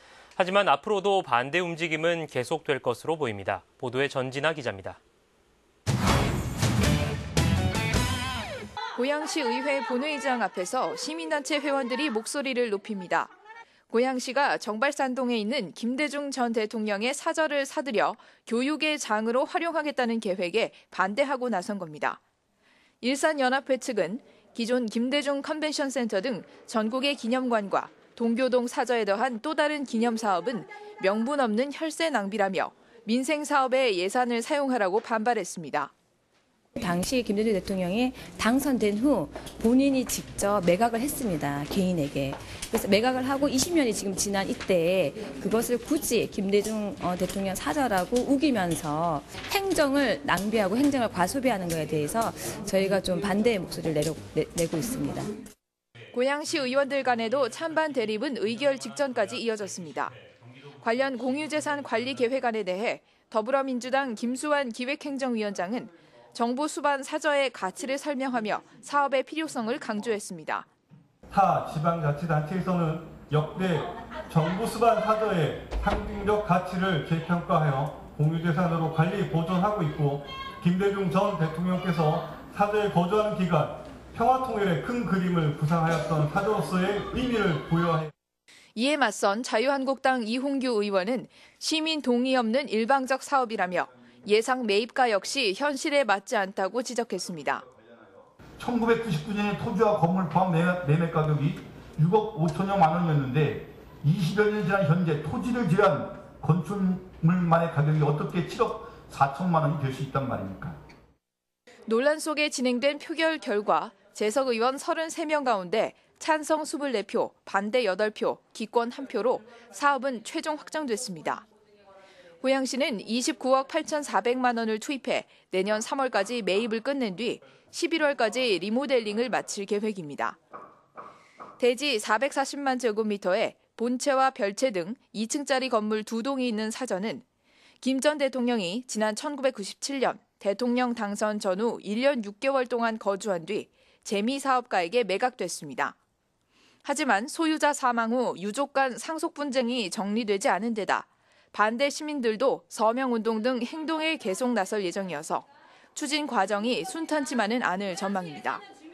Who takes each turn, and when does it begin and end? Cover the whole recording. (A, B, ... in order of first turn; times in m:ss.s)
0:00.4-0:05.0 A
0:08.9-0:13.3 B
0:13.9-0:22.2 B
0:23.0-0:35.9 B
0:36.8-0:55.3 C
0:56.1-1:00.2 B
1:00.8-1:10.7 B
1:11.3-1:28.1 D
1:28.7-1:37.6 B
1:38.6-1:50.8 E
1:51.9-2:01.4 B
2:02.4-2:10.4 B
2:11.6-2:17.2 B
2:17.8-2:26.0 B
2:26.8-2:38.6 B